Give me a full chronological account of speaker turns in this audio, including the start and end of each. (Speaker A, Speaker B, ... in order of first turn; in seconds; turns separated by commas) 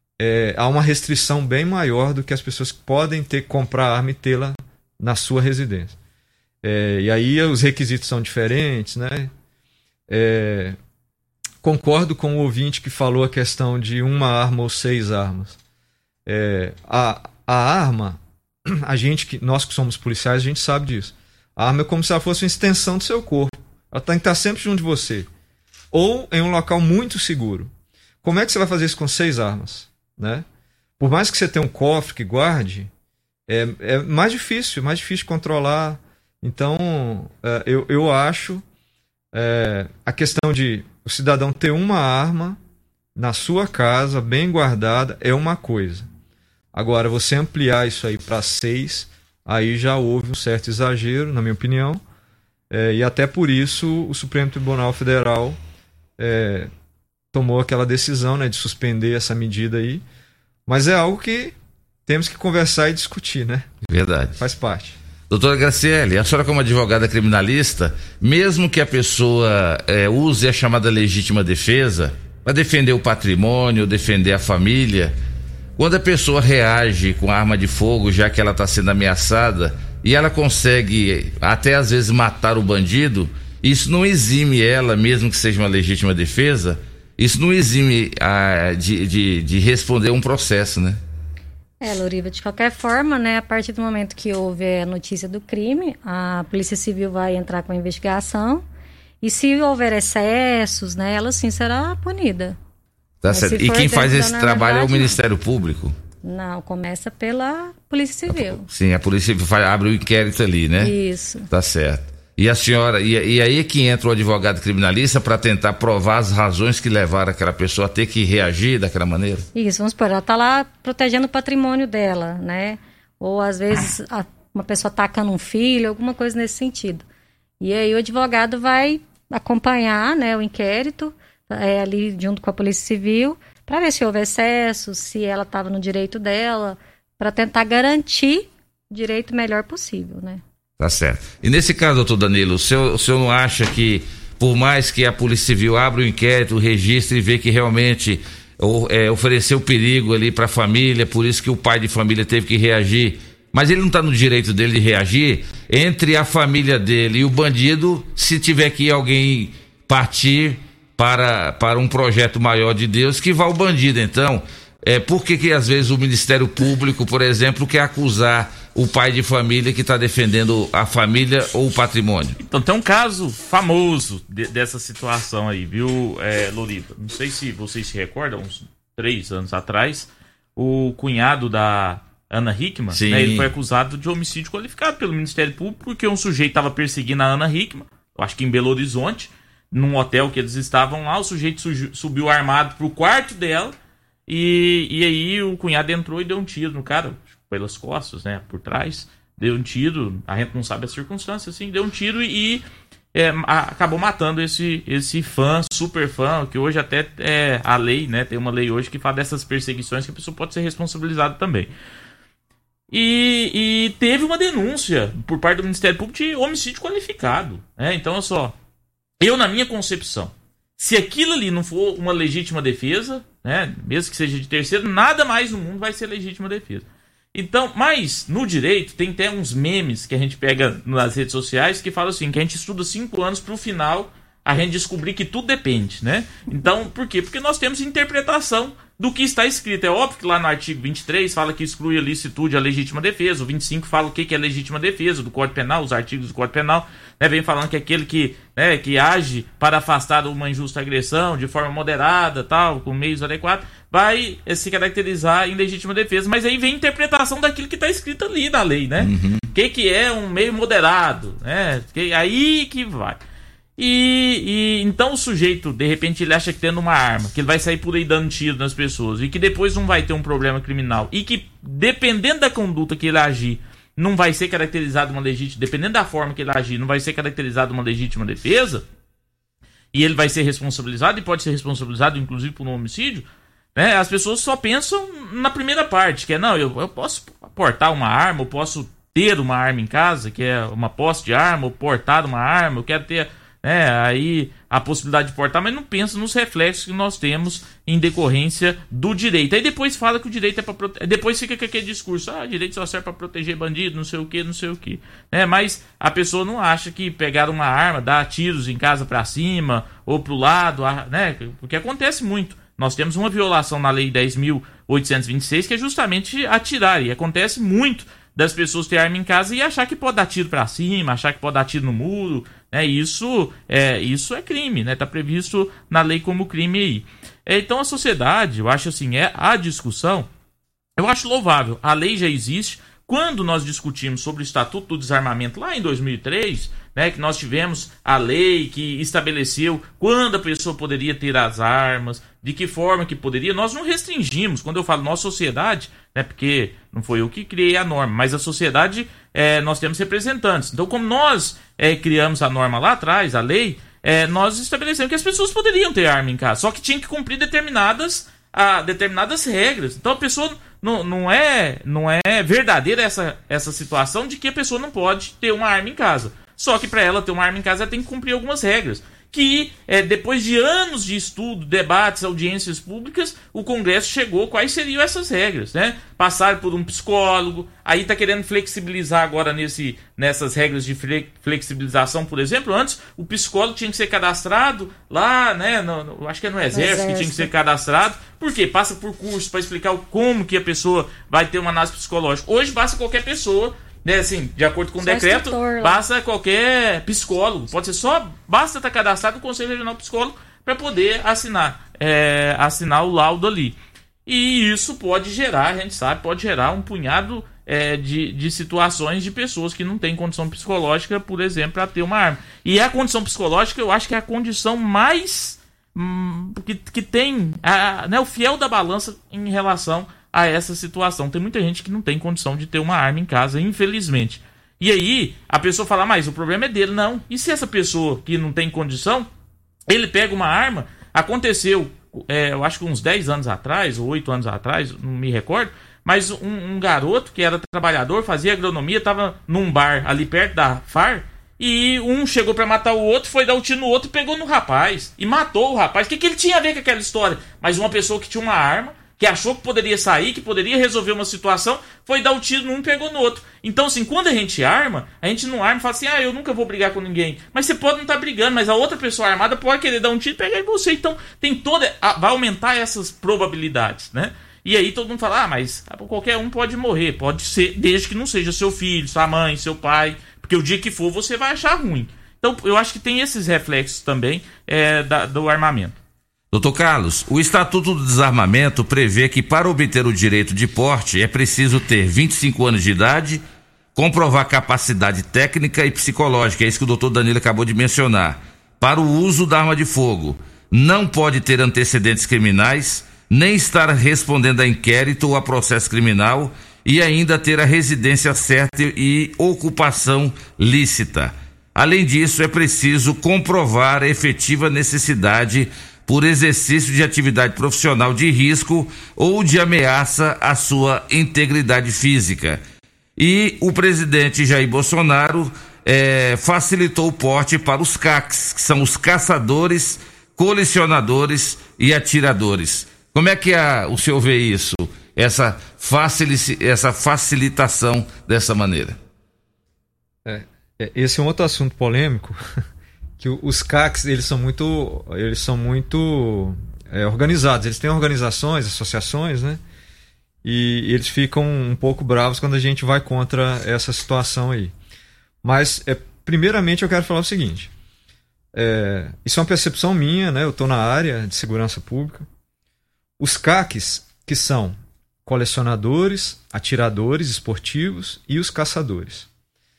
Speaker A: 0.2-6.0, Speaker A: 6.6-9.3, Speaker A: 10.1-10.8, Speaker A: 11.6-15.6, Speaker A: 16.3-25.3, Speaker A: 25.9-27.7, Speaker A: 28.2-30.5, Speaker A: 31.0-32.9, Speaker A: 33.5-38.6, Speaker A: 39.3-42.6, Speaker A: 43.2-46.1, Speaker A: 46.7-52.0, Speaker A: 52.7-55.6, Speaker A: 56.2-56.7, Speaker A: 57.3-60.0, Speaker A: 60.7-61.5, Speaker A: 62.1-63.7, Speaker B: 63.9-64.4, Speaker A: 64.4-65.0, Speaker B: 65.3-75.2, Speaker B: 75.8-91.0, Speaker C: 91.8-98.6, Speaker C: 99.2-102.6, Speaker B: 103.2-106.0, Speaker C: 103.3-105.2, Speaker C: 106.2-108.7, Speaker B: 108.3-110.9, Speaker C: 110.8-111.5, Speaker B: 111.5-119.5, Speaker C: 119.5-127.0, Speaker C: 127.6-140.4, Speaker B: 140.8-172.4, Speaker D: 172.4-193.8, Speaker B: 182.9-183.5, Speaker D: 194.3-211.7, Speaker D: 212.9-218.6, Speaker D: 219.2-263.2, Speaker B: 259.0-259.5, Speaker D: 263.8-278.8, Speaker D: 279.9-330.3, Speaker D: 331.0-429.3, Speaker C: 386.7-387.5, Speaker C: 395.0-396.0, Speaker D: 429.9-476.0, Speaker B: 476.5-483.4, Speaker B: 483.9-512.6, Speaker B: 513.2-529.0, Speaker A: 530.2-532.4, Speaker A: 533.2-539.6, Speaker A: 540.4-544.7, Speaker A: 545.4-547.7, Speaker A: 548.5-552.3, Speaker A: 553.2-559.3